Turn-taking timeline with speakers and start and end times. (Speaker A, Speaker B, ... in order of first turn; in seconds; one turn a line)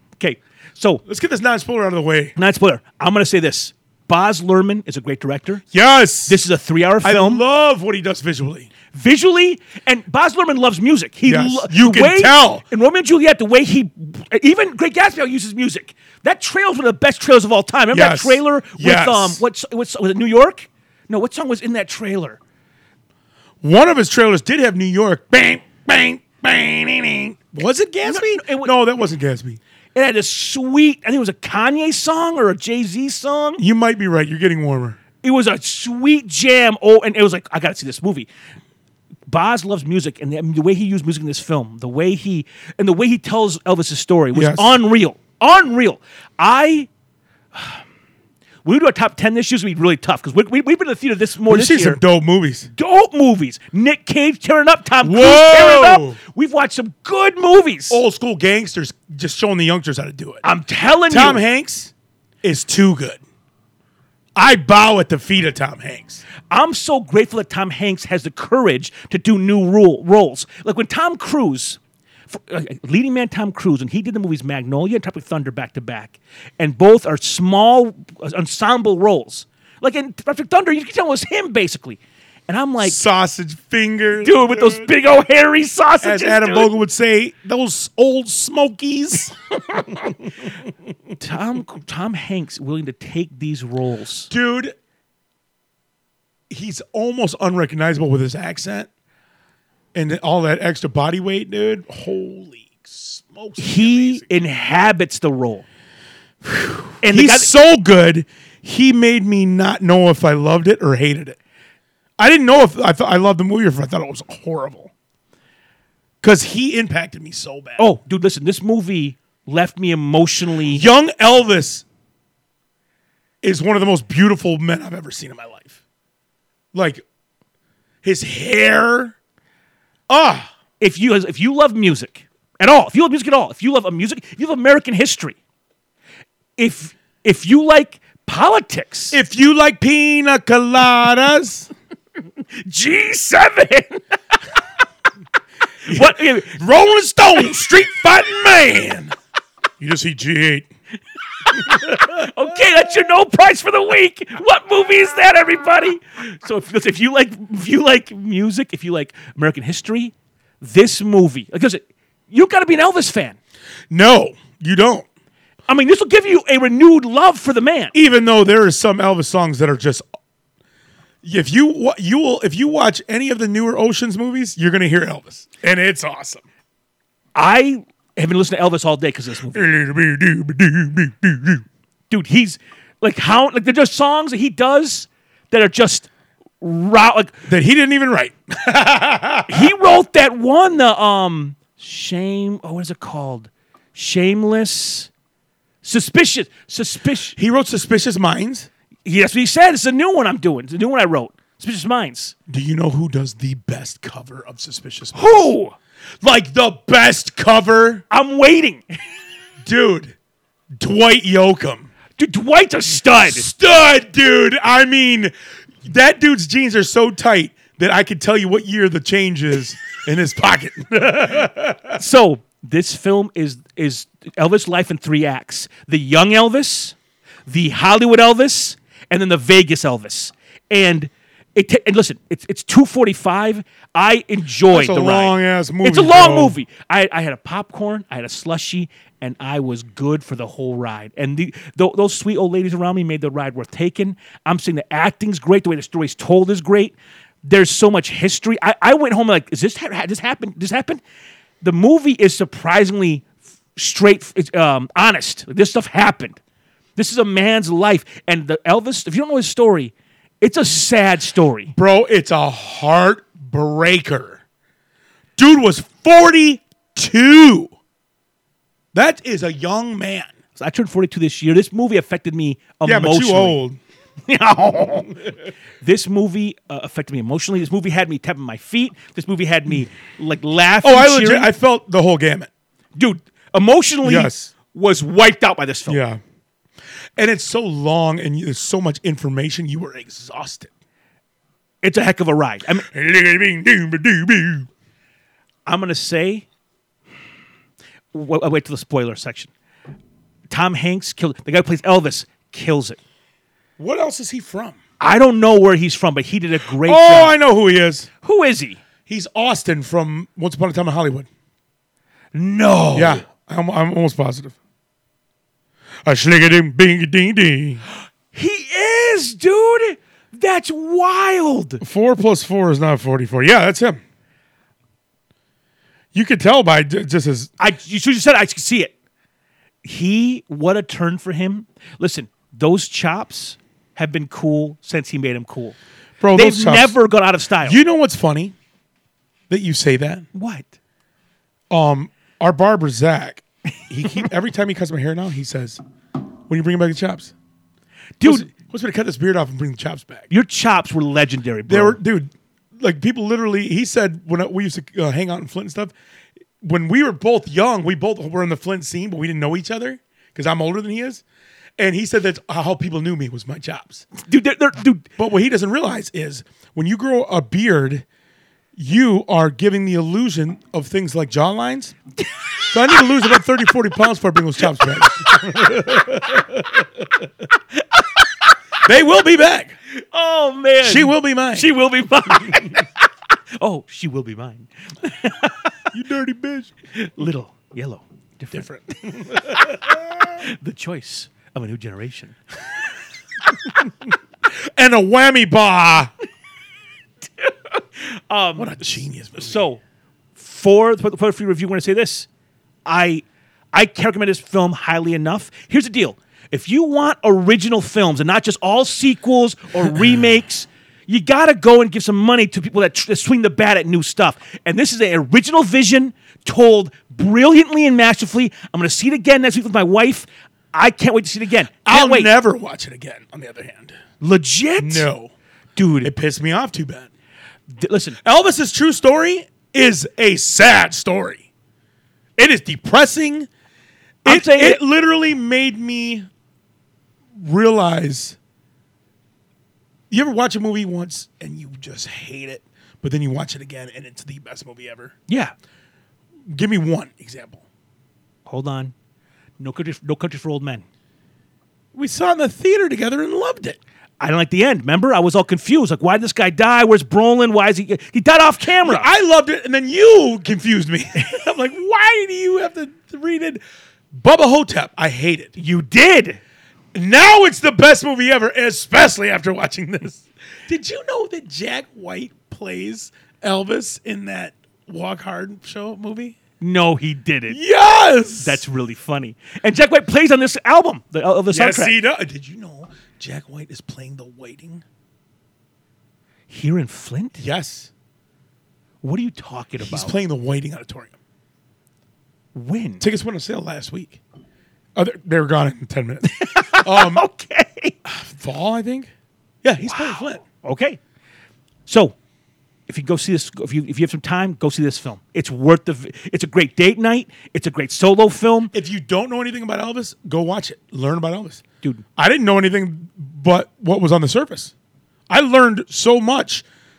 Speaker A: 0.2-1.0
Speaker B: 1.1-2.4
Speaker A: 2.4-5.6
Speaker B: 5.7-6.4
Speaker A: 6.3-7.4
Speaker B: 7.0-8.7
Speaker A: 8.9-22.4
Speaker B: 11.2-12.6
Speaker B: 17.9-19.4
Speaker B: 23.6-29.6
Speaker A: 28.0-28.7
Speaker A: 29.9-33.6
Speaker B: 33.6-35.0
Speaker A: 35.2-38.3
Speaker A: 39.3-46.9
Speaker B: 44.3-44.8
Speaker A: 47.5-47.8
Speaker A: 48.6-52.0
Speaker B: 51.5-52.7
Speaker A: 52.7-58.0
Speaker B: 55.0-56.2
Speaker B: 57.9-60.4
Speaker A: 60.4-61.4
Speaker B: 61.1-63.2
Speaker B: 64.3-66.2
Speaker A: 66.5-83.0
Speaker B: 82.8-84.9
Speaker A: 84.2-86.7
Speaker B: 86.0-90.5
Speaker A: 91.2-94.3
Speaker B: 94.3-94.8
Speaker B: 96.5-98.9
Speaker B: 99.9-104.3
Speaker A: 103.6-105.7
Speaker B: 106.4-111.4
Speaker A: 107.0-107.5
Speaker B: 112.2-114.9
Speaker B: 116.2-117.8
Speaker A: 117.8-120.9
Speaker B: 120.7-121.8
Speaker B: 123.4-125.8
Speaker B: 126.7-127.0
Speaker B: 128.0-129.1
Speaker B: 130.1-130.5
Speaker A: 130.8-135.4
Speaker A: 136.6-139.2
Speaker B: 139.1-141.7
Speaker A: 142.6-144.0
Speaker B: 145.8-149.1
Speaker A: 145.9-146.6
Speaker B: 149.8-150.7
Speaker A: 151.5-163.4
Speaker B: 151.7-152.2
Speaker B: 163.9-165.1
Speaker A: 165.7-167.9
Speaker B: 167.9-170.0
Speaker B: 171.2-176.4
Speaker A: 177.3-179.7
Speaker B: 179.5-181.6
Speaker A: 182.1-186.1
Speaker A: 186.6-187.4
Speaker B: 187.5-189.7
Speaker A: 189.5-195.1
Speaker A: 195.8-197.3
Speaker B: 197.3-198.7
Speaker A: 199.1-202.3
Speaker B: 202.5-205.5
Speaker A: 205.1-205.8
Speaker B: 206.2-208.0
Speaker A: 208.1-208.8
Speaker B: 209.6-210.2
Speaker B: 210.8-211.9
Speaker A: 212.2-213.5
Speaker B: 213.0-215.3
Speaker B: 215.8-222.0
Speaker A: 222.0-226.9
Speaker A: 227.5-251.0
Speaker B: 234.7-236.6
Speaker A: 251.6-256.4
Speaker A: 256.9-261.7
Speaker B: 261.7-264.4
Speaker B: 265.4-267.7
Speaker B: 268.9-270.3
Speaker A: 270.6-273.6
Speaker B: 272.8-273.8
Speaker A: 274.2-281.5
Speaker B: 280.8-282.5
Speaker A: 282.9-286.0
Speaker B: 284.0-284.5
Speaker B: 285.9-286.2
Speaker B: 287.2-290.7
Speaker A: 291.8-292.9
Speaker B: 292.8-294.7
Speaker A: 295.7-296.4
Speaker A: 298.1-299.5
Speaker A: 300.5-303.0
Speaker B: 303.8-304.8
Speaker A: 305.0-307.4
Speaker B: 306.8-308.1
Speaker A: 308.2-308.8
Speaker B: 309.1-311.3
Speaker A: 312.3-313.2
Speaker B: 312.9-314.6
Speaker B: 316.1-317.8
Speaker A: 318.3-321.8
Speaker B: 321.8-324.0
Speaker B: 326.1-327.5
Speaker A: 327.6-328.9
Speaker A: 329.8-335.8
Speaker B: 336.2-336.9
Speaker A: 336.3-337.8
Speaker B: 337.6-338.6
Speaker B: 339.5-340.2
Speaker A: 340.3-340.7
Speaker B: 341.7-345.8
Speaker B: 346.5-347.3
Speaker A: 348.2-348.5
Speaker B: 348.2-350.3
Speaker A: 350.3-352.0
Speaker B: 351.7-355.9
Speaker B: 356.6-361.2
Speaker B: 361.8-364.1
Speaker A: 364.2-365.1
Speaker B: 365.2-368.1
Speaker B: 368.8-371.9
Speaker B: 372.7-377.2
Speaker B: 378.8-379.8
Speaker A: 379.9-383.0
Speaker B: 380.8-381.7
Speaker A: 383.6-385.8
Speaker B: 385.9-386.7
Speaker A: 386.9-392.4
Speaker B: 388.5-390.0
Speaker B: 394.5-396.1
Speaker A: 397.4-399.8
Speaker B: 398.6-399.6
Speaker A: 400.4-402.3
Speaker A: 402.9-422.3
Speaker B: 421.9-424.0
Speaker A: 424.2-425.1
Speaker B: 424.8-425.3
Speaker A: 425.8-426.1
Speaker B: 426.0-427.1
Speaker A: 427.7-428.2
Speaker B: 428.2-431.5
Speaker B: 432.4-433.5
Speaker B: 434.2-436.3
Speaker A: 434.2-434.8
Speaker B: 437.4-438.4
Speaker B: 440.1-445.2
Speaker A: 445.3-445.5
Speaker B: 446.5-447.6
Speaker A: 448.4-448.9
Speaker A: 449.6-450.8
Speaker B: 451.9-453.8
Speaker A: 454.2-459.1
Speaker B: 458.8-463.6
Speaker B: 464.1-465.6
Speaker A: 465.6-466.4
Speaker B: 466.9-476.4
Speaker A: 476.6-477.6
Speaker B: 477.5-478.6
Speaker A: 478.4-482.0
Speaker B: 481.5-484.8
Speaker A: 486.5-487.4
Speaker B: 487.4-487.9
Speaker A: 489.0-490.1
Speaker B: 489.8-491.1
Speaker A: 492.5-493.1
Speaker B: 493.0-494.2
Speaker B: 494.9-497.2
Speaker A: 496.2-497.9
Speaker B: 498.1-499.1
Speaker B: 499.6-500.4
Speaker A: 499.8-501.0
Speaker A: 501.9-502.1
Speaker A: 502.9-508.7
Speaker B: 508.7-511.6
Speaker B: 512.2-514.7
Speaker B: 515.3-516.6